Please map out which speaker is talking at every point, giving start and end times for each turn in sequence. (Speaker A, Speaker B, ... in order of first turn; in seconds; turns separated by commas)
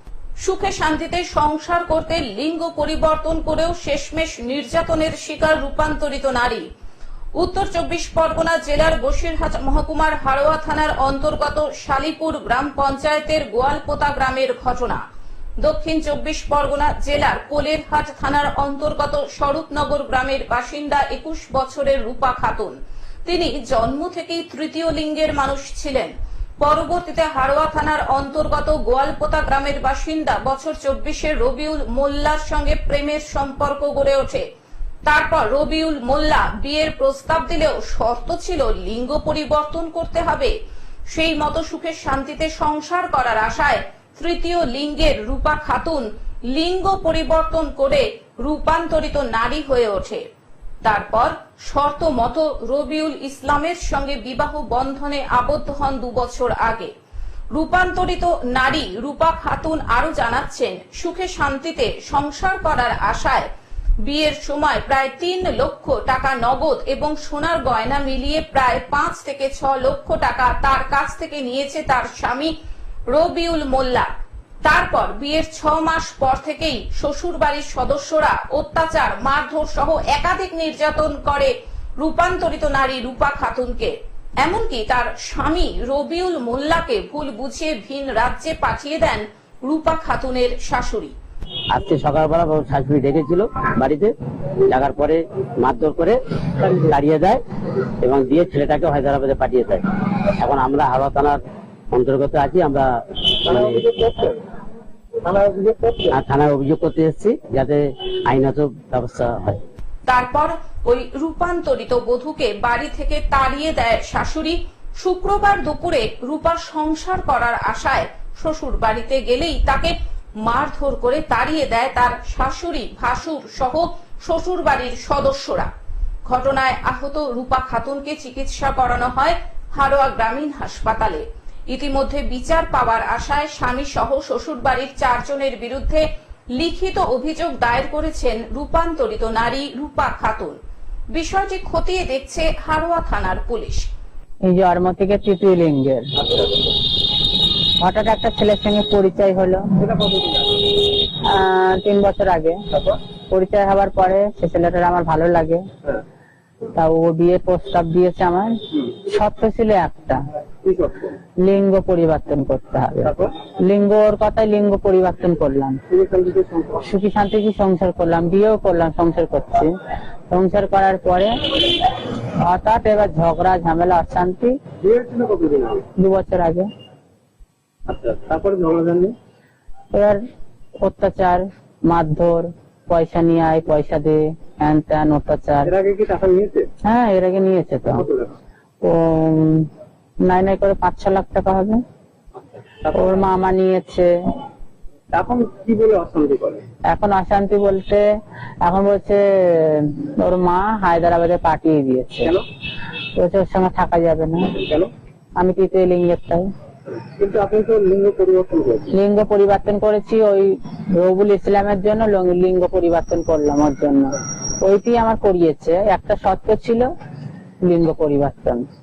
Speaker A: 0.4-6.7, Speaker A: 7.4-15.0, Speaker A: 15.6-34.4, Speaker A: 35.1-40.5, Speaker A: 41.1-50.2, Speaker A: 50.8-56.9, Speaker A: 57.5-63.5, Speaker A: 64.0-72.5, Speaker A: 73.1-74.1, Speaker A: 74.7-91.2, Speaker B: 91.7-94.1, Speaker B: 94.7-97.4, Speaker B: 98.0-99.8, Speaker B: 100.4-101.4, Speaker B: 101.9-102.9, Speaker B: 103.5-103.9, Speaker C: 103.5-104.4, Speaker C: 105.2-106.2, Speaker B: 106.1-109.6, Speaker A: 110.1-125.7, Speaker A: 126.3-140.6, Speaker A: 141.1-143.9, Speaker D: 144.5-146.1, Speaker D: 147.8-149.7, Speaker C: 149.8-150.6, Speaker D: 151.2-152.6, Speaker C: 152.7-153.0, Speaker D: 153.3-155.6, Speaker D: 156.8-160.2, Speaker C: 160.6-161.2, Speaker D: 161.4-165.8, Speaker C: 163.0-163.3, Speaker C: 165.9-166.9, Speaker D: 166.8-169.7, Speaker D: 170.3-171.4, Speaker D: 172.3-174.6, Speaker C: 174.8-175.9, Speaker D: 176.0-176.7, Speaker C: 177.9-179.2, Speaker D: 179.9-180.2, Speaker D: 180.8-185.7, Speaker C: 185.7-186.7, Speaker D: 186.8-188.1, Speaker C: 188.0-188.4, Speaker D: 188.8-189.7, Speaker D: 190.2-191.8, Speaker C: 192.8-193.3, Speaker D: 192.9-194.1, Speaker C: 195.1-196.7, Speaker D: 196.9-198.1, Speaker D: 198.6-202.3, Speaker D: 203.2-204.5, Speaker C: 204.6-204.9, Speaker D: 205.4-206.5, Speaker C: 207.2-208.9, Speaker D: 208.9-216.9, Speaker D: 217.7-218.7